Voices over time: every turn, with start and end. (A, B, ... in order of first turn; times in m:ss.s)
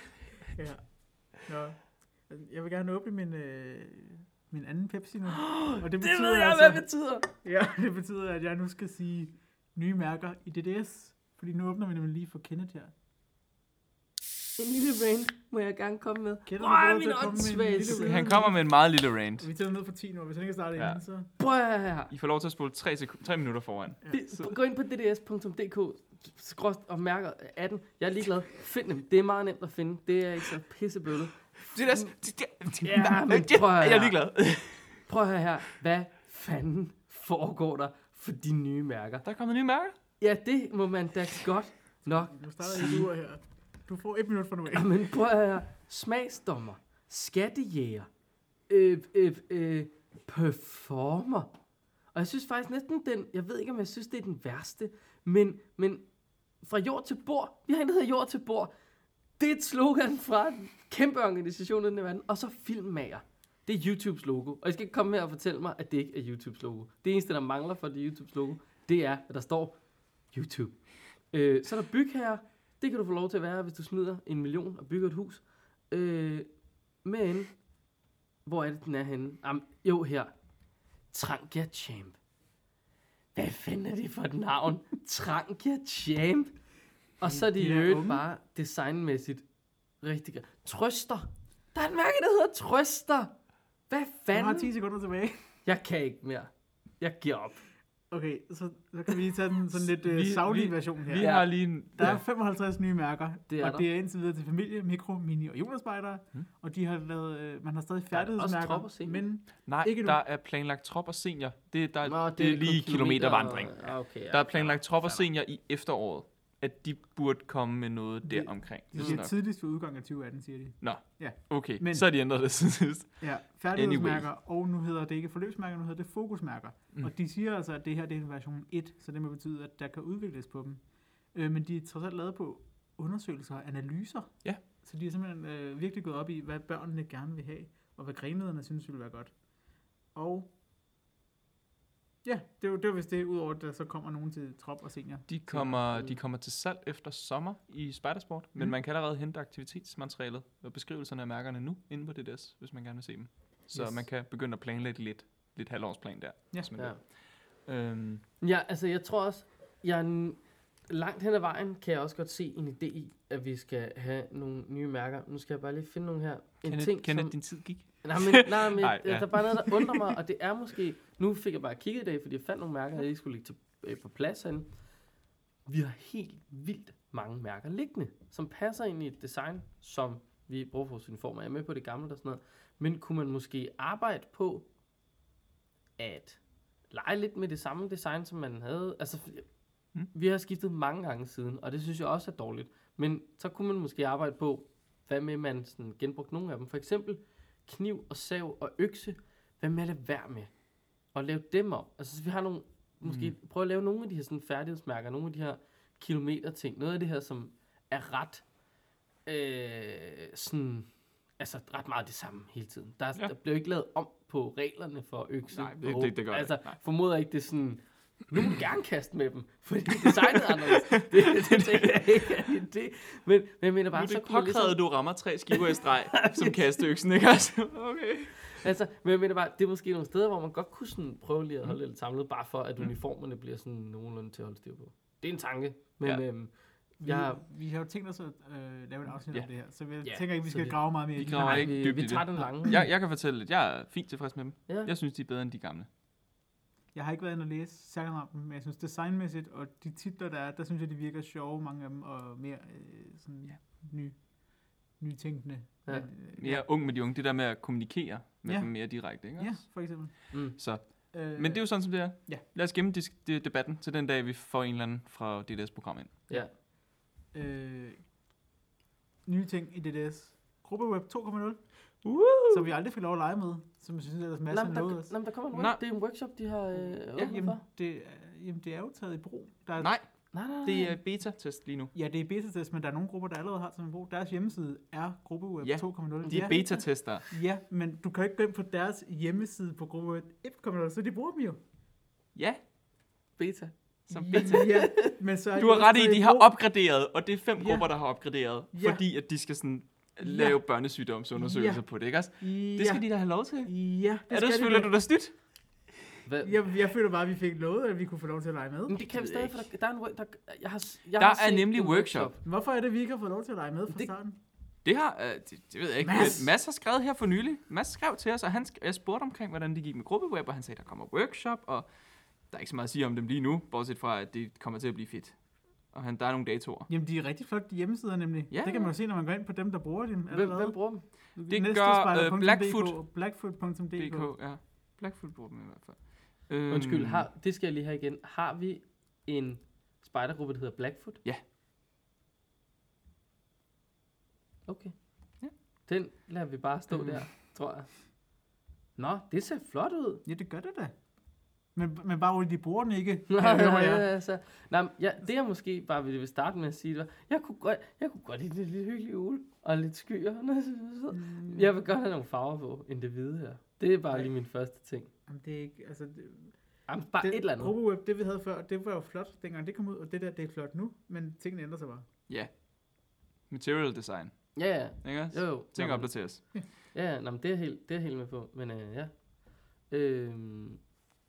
0:00.6-0:12.9 A
0:05.3-0:07.3 B
0:14.6-0:18.4 B
0:16.5-0:18.7 A
0:17.9-0:19.5 C
0:19.4-0:21.3 A
0:21.4-0:22.1 B
0:22.1-0:24.5 C
0:24.1-0:32.1 B
0:31.7-0:35.0 C
0:32.8-0:34.2 B
0:35.1-0:39.2 B
0:39.2-0:40.0 C
0:40.2-0:43.1 B
0:42.1-0:45.0 A
0:44.7-0:48.1 B
0:48.7-0:51.5 B
0:52.1-0:56.0 B
0:56.6-0:58.7 B
0:59.4-1:09.8 B
1:10.3-1:10.8 B
1:11.3-1:16.5 B
1:17.0-1:17.5 B
1:18.5-1:20.3 B
1:21.1-1:22.2 B
1:23.4-1:26.6 B
1:27.2-1:29.4 B
1:27.3-1:28.2 A
1:30.0-1:33.4 B
1:33.9-1:34.7 B
1:34.3-1:35.4 A
1:35.6-1:37.6 B
1:38.1-1:50.2 A
1:39.9-1:42.2 C
1:41.2-1:41.4 B
1:43.5-1:43.9 B
1:48.1-1:49.2 B
1:49.7-1:59.3 C
1:52.0-1:55.2 B
1:58.3-2:02.1 A
2:00.8-2:04.3 C
2:03.2-2:19.3 A
2:20.1-2:20.5 A
2:22.2-2:25.8 A
2:25.3-2:37.1 C
2:37.6-2:38.2 C
2:38.4-2:47.4 B
2:46.6-2:50.2 C
2:48.0-2:54.7 B
2:55.7-3:04.7 B
3:06.0-3:06.4 B
3:06.9-3:09.5 B
3:10.1-3:20.5 B
3:21.1-3:28.4 B
3:23.1-3:23.3 C
3:29.3-3:44.8 B
3:35.5-3:36.8 C
3:40.5-3:42.3 C
3:43.9-3:48.6 C
3:45.7-3:46.8 B
3:48.4-3:57.4 B
3:57.0-4:01.8 A
4:00.0-4:02.8 B
4:01.2-4:05.9 C
4:06.9-4:14.2 A
4:15.0-4:16.7 A
4:16.4-4:19.6 C
4:18.5-4:20.3 A
4:20.6-4:26.2 C
4:21.1-4:22.4 A
4:27.3-4:28.0 A
4:29.2-4:31.6 A
4:32.0-4:32.7 C
4:32.5-4:35.1 A
4:34.5-4:37.6 B
4:35.5-4:35.8 C
4:37.2-4:39.9 A
4:39.8-4:40.0 C
4:40.3-4:41.0 B
4:40.6-4:41.9 C
4:41.9-4:51.6 A
4:45.6-4:47.3 C
4:46.3-4:46.5 B
4:52.4-4:52.6 C
4:53.4-4:53.7 B
4:54.1-4:56.5 A
4:54.1-4:54.9 C
4:54.3-4:55.1 B
4:55.6-5:05.3 C
4:57.6-4:57.9 A
4:58.7-4:59.0 A
5:00.2-5:00.6 A
5:01.4-5:01.8 A
5:02.4-5:03.1 A
5:03.6-5:04.9 A
5:06.2-5:06.6 B
5:06.4-5:09.0 A
5:08.9-5:12.4 B
5:09.1-5:09.6 C
5:11.2-5:12.3 C
5:12.4-5:14.4 A
5:14.8-5:21.9 C
5:16.0-5:16.5 A
5:22.5-5:25.4 C
5:25.9-5:26.9 C
5:26.9-5:30.8 A
5:28.5-5:28.9 C
5:30.3-5:31.0 B
5:31.4-5:34.3 A
5:31.4-5:33.0 C
5:34.0-5:37.3 C
5:36.7-5:41.2 B
5:44.7-5:44.9 B
5:45.9-5:47.9 B
5:49.0-5:50.2 B
5:50.2-5:51.0 A
5:51.8-5:54.1 A
5:53.3-6:05.1 B
6:01.1-6:01.7 A
6:05.3-6:06.6 A
6:06.9-6:07.7 B
6:07.2-6:12.1 A
6:13.5-6:14.3 C
6:14.6-6:16.1 B
6:15.0-6:16.4 C
6:16.9-6:19.1 B
6:19.9-6:20.8 B